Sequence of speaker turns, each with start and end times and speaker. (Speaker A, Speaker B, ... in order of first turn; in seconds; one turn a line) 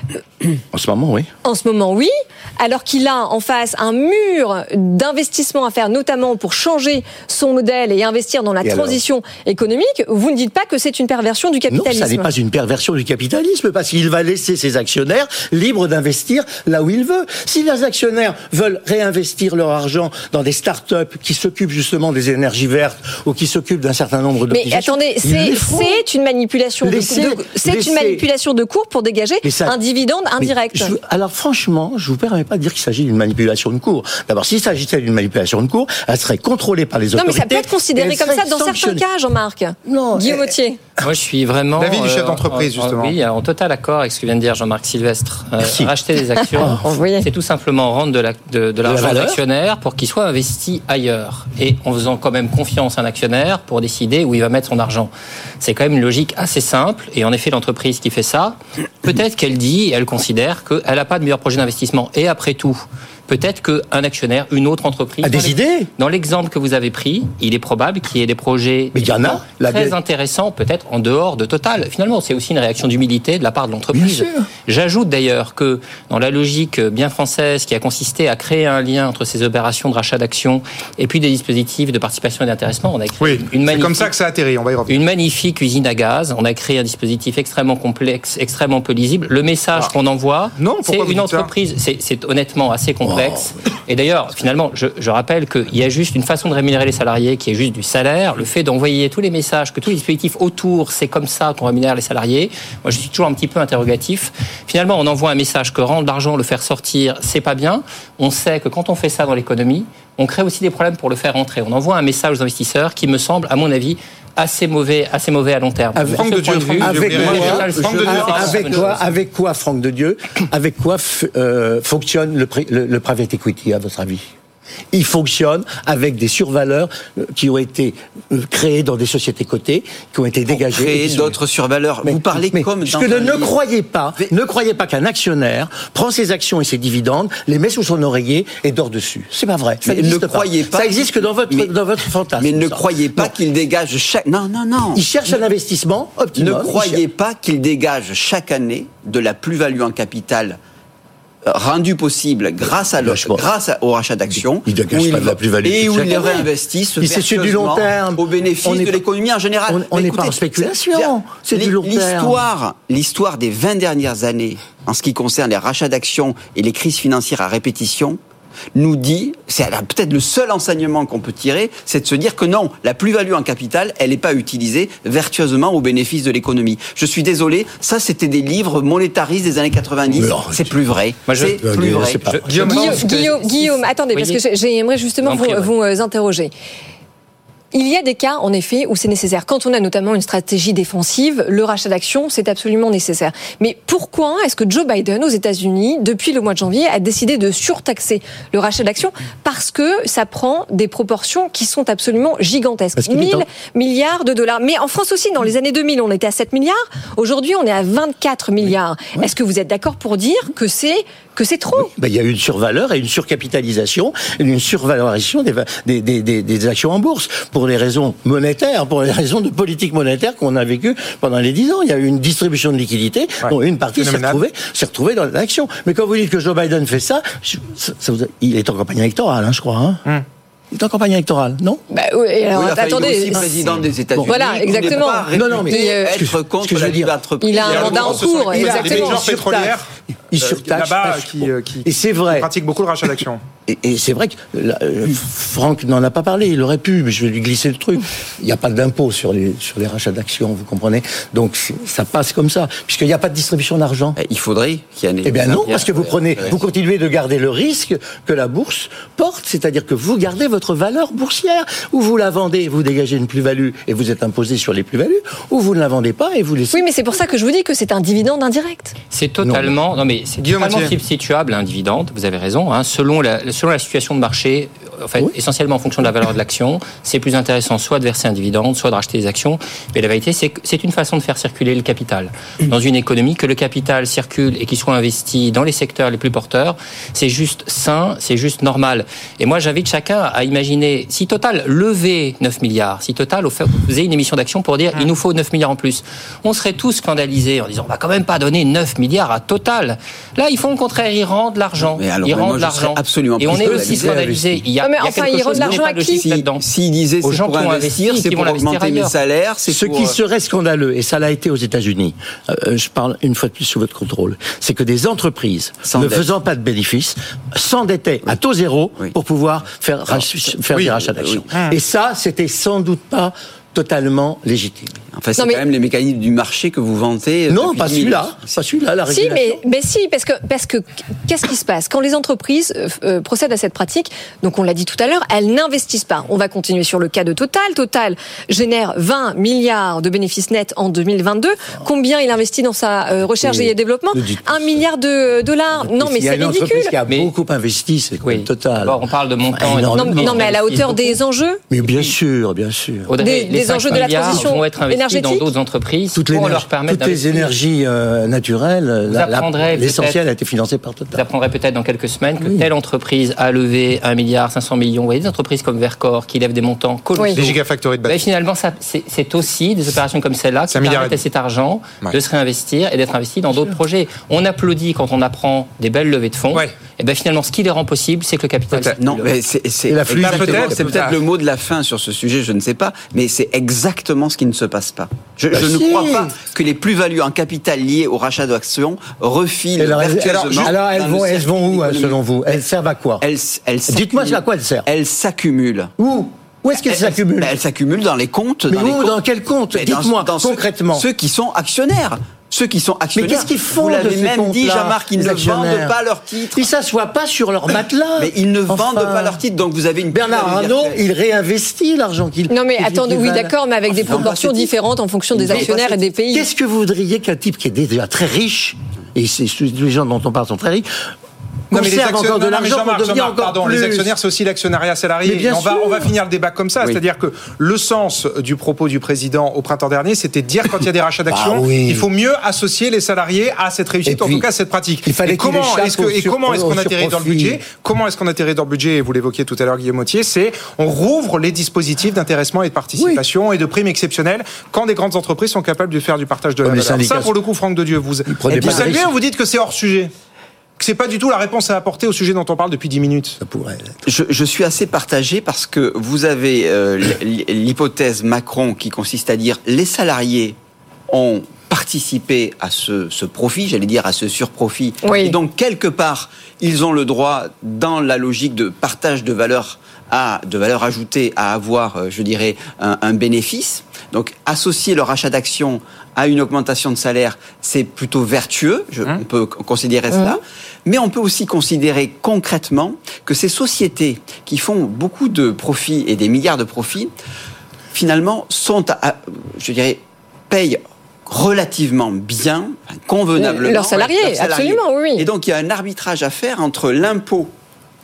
Speaker A: 0.7-1.3
Speaker B: 1.4-12.3
Speaker A: 8.6-9.0
Speaker A: 11.7-26.0
Speaker B: 24.5-30.9
Speaker A: 26.8-28.2
Speaker A: 29.4-29.8
Speaker A: 30.4-39.0
Speaker B: 37.1-40.8
Speaker A: 39.9-40.5
Speaker C: 41.0-84.1
Speaker D: 41.8-43.2
Speaker A: 45.6-45.9
Speaker A: 46.5-46.8
Speaker B: 46.8-47.3
Speaker A: 48.8-49.4
Speaker A: 65.2-65.9
Speaker A: 68.9-70.0
Speaker A: 73.9-74.5
Speaker D: 83.2-85.0
Speaker C: 84.9-119.0
Speaker D: 90.6-91.5
Speaker A: 93.0-93.5
Speaker A: 116.0-124.3
Speaker D: 116.0-118.8
Speaker E: 117.8-118.6
Speaker A: 124.9-131.4
Speaker E: 130.5-133.6
Speaker A: 132.0-143.3
Speaker E: 139.8-141.7
Speaker E: 142.4-145.4
Speaker A: 144.9-147.0
Speaker E: 146.4-150.6
Speaker E: 151.5-168.2
Speaker A: 152.6-153.5
Speaker A: 154.3-156.5
Speaker A: 157.0-159.0
Speaker A: 159.7-162.4
Speaker E: 168.8-182.2
Speaker A: 180.1-180.8
Speaker C: 181.3-184.4
Speaker A: 181.4-182.4
Speaker D: 182.5-183.1
Speaker B: 182.6-186.5
Speaker C: 185.2-185.7
Speaker B: 187.7-211.9
Speaker A: 203.0-203.4
Speaker A: 208.7-209.3
Speaker A: 211.8-230.0
Speaker D: 223.4-224.4
Speaker A: 230.7-231.8
Speaker B: 231.9-233.5
Speaker E: 232.5-238.5
Speaker A: 233.0-237.1
Speaker B: 234.2-236.2
Speaker B: 237.4-239.3
Speaker D: 237.6-239.9
Speaker A: 237.7-242.5
Speaker D: 240.4-243.4
Speaker A: 243.7-254.2
Speaker E: 254.2-256.7
Speaker A: 255.2-266.9
Speaker B: 266.7-268.9
Speaker C: 269.1-306.6
Speaker A: 269.4-269.7
Speaker D: 270.4-270.9
Speaker E: 301.9-304.3
Speaker A: 303.4-304.6
Speaker B: 304.8-306.2
Speaker E: 305.6-310.2
Speaker C: 307.2-309.1
Speaker A: 309.7-325.0
Speaker E: 315.8-316.3
Speaker E: 320.1-321.5
Speaker E: 325.1-328.4
Speaker B: 325.4-325.6
Speaker A: 327.5-329.6
Speaker B: 329.1-346.9
Speaker A: 343.3-344.9
Speaker A: 345.7-349.0
Speaker C: 348.2-351.2
Speaker A: 349.5-350.5
Speaker B: 349.9-351.6
Speaker A: 351.7-353.1
Speaker C: 351.8-352.1
Speaker C: 353.1-357.5
Speaker B: 353.2-355.4
Speaker A: 353.8-354.5
Speaker A: 356.1-361.2
Speaker C: 359.1-360.2
Speaker C: 361.1-379.3
Speaker A: 362.4-362.7
Speaker D: 367.3-368.2
Speaker D: 370.7-371.2
Speaker E: 379.0-392.6
Speaker A: 379.9-381.1
Speaker D: 380.2-381.2
Speaker A: 385.5-386.4
Speaker A: 389.8-393.2
Speaker D: 390.2-390.7
Speaker E: 393.2-395.9
Speaker A: 393.9-394.9
Speaker A: 396.0-397.5
Speaker E: 396.9-399.2
Speaker A: 398.7-401.1
Speaker E: 399.7-406.7
Speaker A: 403.1-406.0
Speaker A: 406.5-409.4
Speaker E: 408.2-411.0
Speaker A: 410.1-414.3
Speaker B: 412.5-416.5
Speaker E: 413.9-414.7
Speaker E: 415.3-416.0
Speaker A: 415.4-415.8
Speaker A: 416.3-420.9
Speaker A: 421.7-424.2
Speaker D: 421.7-450.1
Speaker A: 425.2-426.1
Speaker A: 431.3-432.1
Speaker A: 434.1-434.5
Speaker A: 435.1-437.6
Speaker A: 443.0-443.2
Speaker A: 446.6-447.4
Speaker A: 448.3-449.1
Speaker D: 450.8-453.4
Speaker A: 453.4-453.9
Speaker E: 454.1-460.6
Speaker E: 461.1-487.1
Speaker B: 465.1-465.4
Speaker B: 480.1-480.4
Speaker E: 487.9-497.5
Speaker B: 493.4-495.3